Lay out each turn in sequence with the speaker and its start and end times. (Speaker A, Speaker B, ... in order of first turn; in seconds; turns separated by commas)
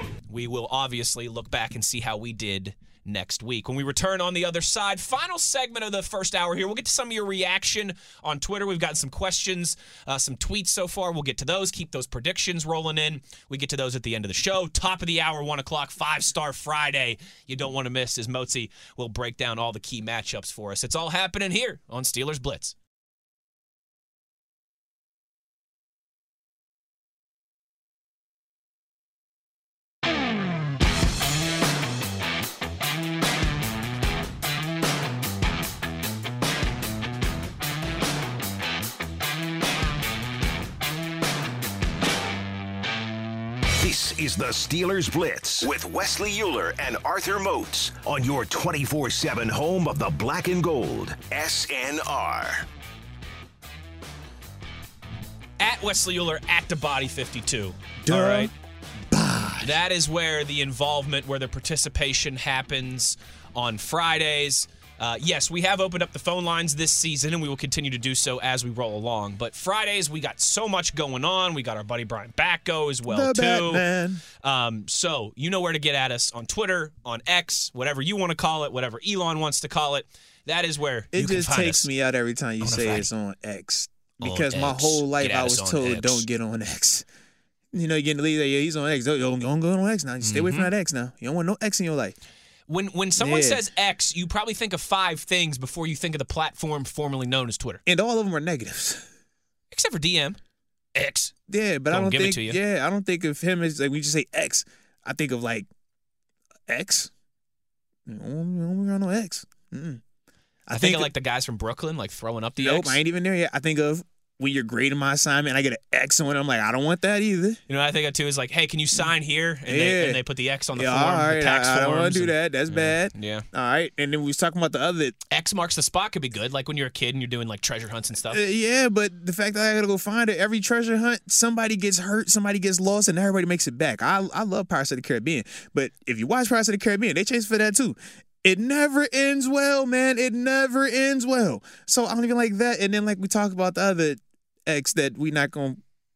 Speaker A: 0.3-22.8, Speaker B: 43.8-52.7, Speaker A: 55.6-58.5, Speaker C: 58.0-58.5, Speaker C: 59.1-59.8, Speaker A: 59.6-73.9, Speaker C: 73.1-74.2, Speaker A: 74.4-81.9, Speaker C: 81.1-87.0, Speaker A: 82.6-83.1, Speaker A: 84.2-86.3, Speaker C: 87.7-92.2, Speaker A: 90.2-90.7, Speaker A: 92.7-97.8, Speaker C: 93.2-93.6, Speaker C: 97.9-99.0, Speaker A: 99.7-100.4, Speaker A: 101.0-101.3, Speaker C: 101.5-105.7, Speaker A: 101.9-102.6, Speaker C: 106.7-107.1, Speaker C: 108.1-110.0, Speaker C: 110.7-111.1, Speaker A: 110.7-113.0, Speaker C: 112.6-117.6, Speaker A: 117.7-123.5, Speaker C: 119.7-120.2, Speaker C: 120.7-125.2, Speaker A: 125.3-128.4, Speaker C: 128.3-145.8